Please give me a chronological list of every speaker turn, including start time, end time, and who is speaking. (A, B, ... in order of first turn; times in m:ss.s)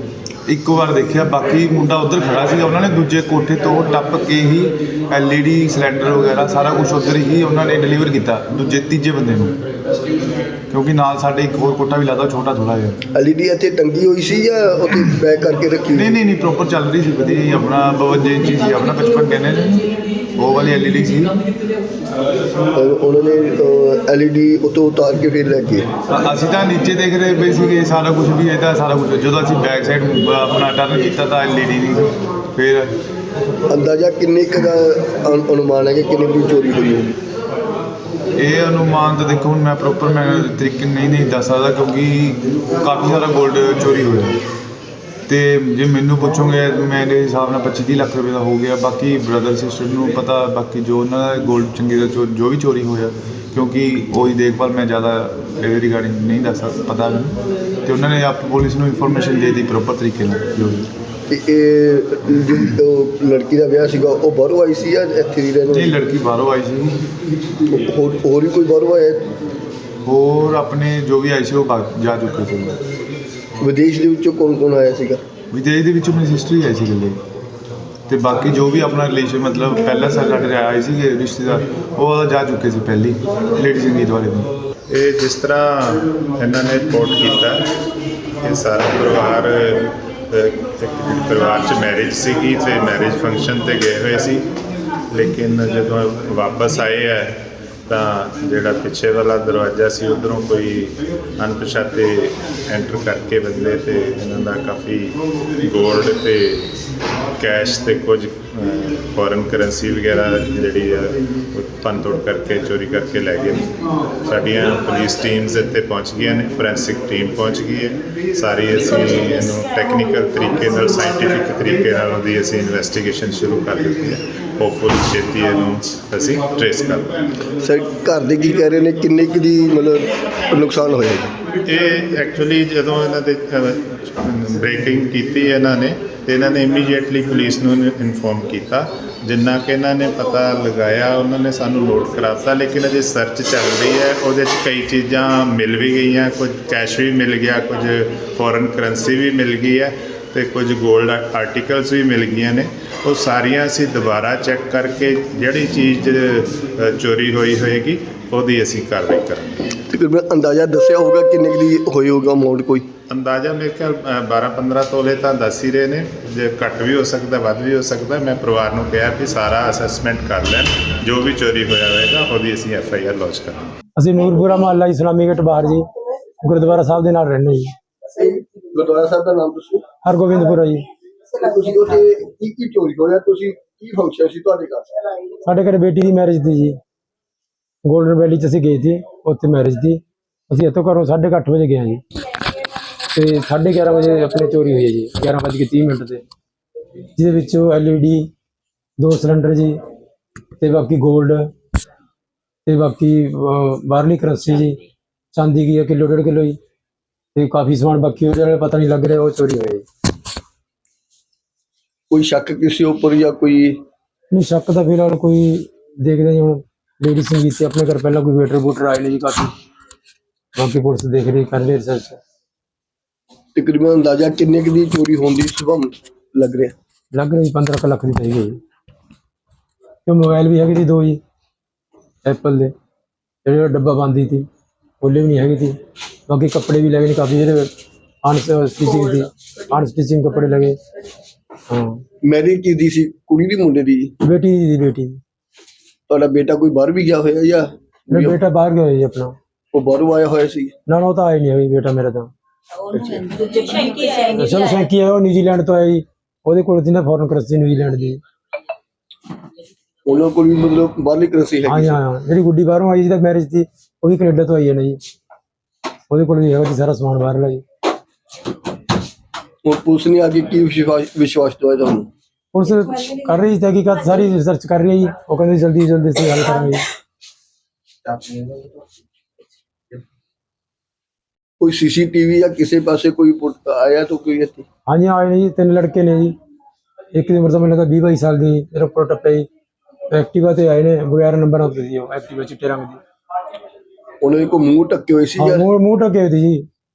0:00.4-0:09.5 A
0:10.7-0:13.0 A
0:13.1-0:16.2 B
0:15.9-0:21.3 A
0:22.7-0:25.9 B
0:26.1-0:32.9 A
0:33.7-0:37.2 B
0:38.4-0:44.4 A
0:45.3-1:00.9 A
1:01.3-1:06.0 B
1:05.7-1:07.0 A
1:07.7-1:09.2 B
1:10.0-1:12.8 A
1:13.6-1:15.2 B
1:15.5-1:17.2 A
1:18.1-1:24.5 A
1:24.9-1:27.7 C
1:28.4-1:34.5 C
1:35.1-1:46.7 C
1:47.4-1:53.7 C
1:54.2-2:07.2 C
2:07.6-2:11.3 B
2:11.6-2:39.7 C
2:39.9-2:42.8 B
2:43.1-2:53.7 C
2:54.0-2:57.7 D
2:58.1-2:59.8 B
3:00.0-3:00.9 D
3:01.3-3:05.3 B
3:05.4-3:06.8 D
3:07.8-3:12.0 D
3:13.1-3:16.2 D
3:17.2-3:18.3 D
3:19.0-3:19.8 D
3:20.6-3:21.5 D
3:22.6-3:24.8 D
3:25.3-3:26.6 D
3:27.3-3:29.8 D
3:32.1-3:33.8 B
3:34.3-3:39.5 D
3:40.6-3:42.2 D
3:43.5-3:46.7 B
3:47.1-3:48.6 D
3:50.0-3:51.2 D
3:52.2-3:52.7 D
3:53.4-3:54.5 D
3:55.0-3:55.8 D
3:56.3-3:57.7 D
3:58.2-4:00.8 D
4:01.7-4:02.0 D
4:02.2-4:04.1 B
4:04.2-4:05.2 D
4:06.1-4:08.4 B
4:08.1-4:09.4 D
4:09.7-4:10.7 B
4:10.9-4:12.3 D
4:12.9-4:13.6 B
4:13.7-4:18.2 D
4:20.0-4:22.0 B
4:21.6-4:25.0 D
4:26.1-4:27.6 D
4:29.6-4:32.1 B
4:32.5-4:36.9 D
4:41.6-4:44.6 B
4:44.9-4:46.3 D
4:47.1-4:49.5 D
4:50.1-4:53.0 D
4:54.2-4:55.6 B
4:55.4-4:56.6 D